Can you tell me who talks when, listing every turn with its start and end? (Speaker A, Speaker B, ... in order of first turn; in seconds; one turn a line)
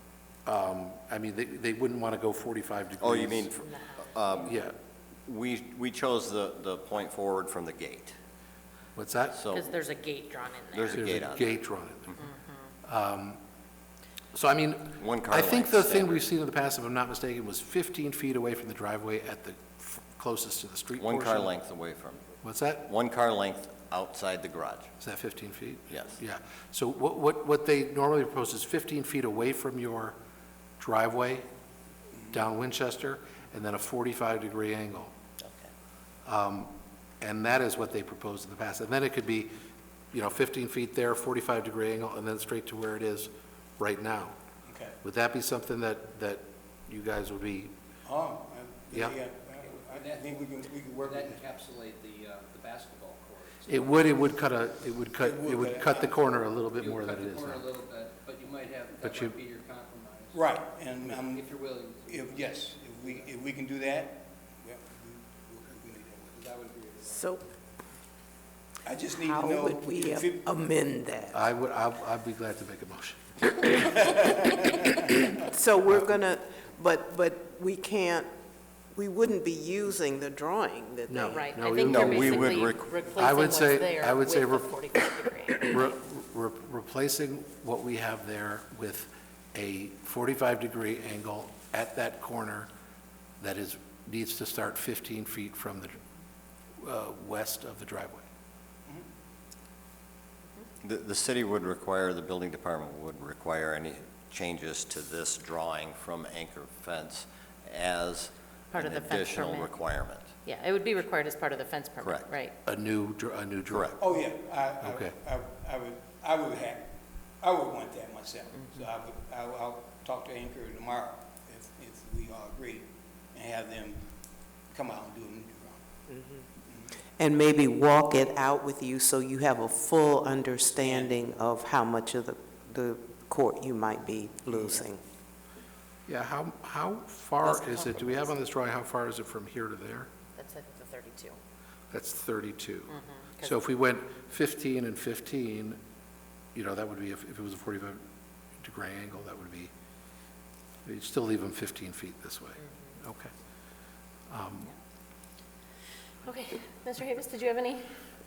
Speaker A: 0.5-3.5
Speaker B: 3.0-4.6
Speaker C: 3.6-4.1
Speaker A: 4.4-4.7
Speaker B: 5.2-8.1
Speaker A: 8.9-9.4
Speaker B: 9.3-9.7
Speaker C: 9.5-11.0
Speaker B: 10.7-11.6
Speaker A: 10.9-12.2
Speaker C: 12.2-12.7
Speaker A: 12.8-13.4
Speaker A: 14.3-21.5
Speaker B: 15.0-16.2
Speaker B: 20.9-22.2
Speaker A: 22.4-22.9
Speaker B: 22.8-24.9
Speaker A: 25.0-30.1
Speaker B: 25.9-26.2
Speaker A: 30.8-31.4
Speaker A: 32.3-35.1
Speaker A: 36.2-39.5
Speaker A: 40.1-44.4
Speaker D: 44.6-45.0
Speaker A: 45.0-47.7
Speaker D: 48.0-51.4
Speaker A: 48.9-49.2
Speaker E: 49.6-54.2
Speaker A: 53.7-57.7
Speaker D: 55.2-56.1
Speaker E: 56.8-60.5
Speaker A: 59.0-59.4
Speaker D: 60.3-61.5
Speaker E: 61.1-63.3
Speaker D: 62.0-66.4
Speaker E: 66.4-67.3
Speaker F: 67.0-67.4
Speaker D: 68.8-70.5
Speaker F: 69.1-71.4
Speaker A: 71.3-75.1
Speaker F: 75.4-78.3
Speaker F: 78.9-81.6
Speaker A: 81.1-84.9
Speaker C: 81.3-85.8
Speaker B: 81.8-82.9
Speaker A: 85.6-92.7
Speaker A: 93.4-96.0
Speaker A: 96.8-98.2
Speaker B: 100.8-110.3
Speaker C: 108.7-109.7
Speaker C: 110.4-112.5
Speaker B: 112.0-112.3
Speaker A: 112.6-114.0
Speaker D: 114.0-116.8
Speaker A: 114.8-115.2
Speaker D: 117.4-124.0
Speaker D: 124.7-125.8
Speaker F: 126.1-126.4
Speaker D: 126.7-126.9
Speaker F: 127.2-135.0
Speaker D: 130.7-131.2
Speaker A: 136.1-140.1
Speaker C: 137.4-138.2
Speaker C: 140.3-141.3
Speaker A: 141.9-145.8
Speaker C: 142.9-143.6
Speaker A: 146.5-148.0
Speaker A: 148.6-149.7
Speaker A: 150.8-153.3
Speaker A: 154.3-154.7
Speaker C: 156.2-157.9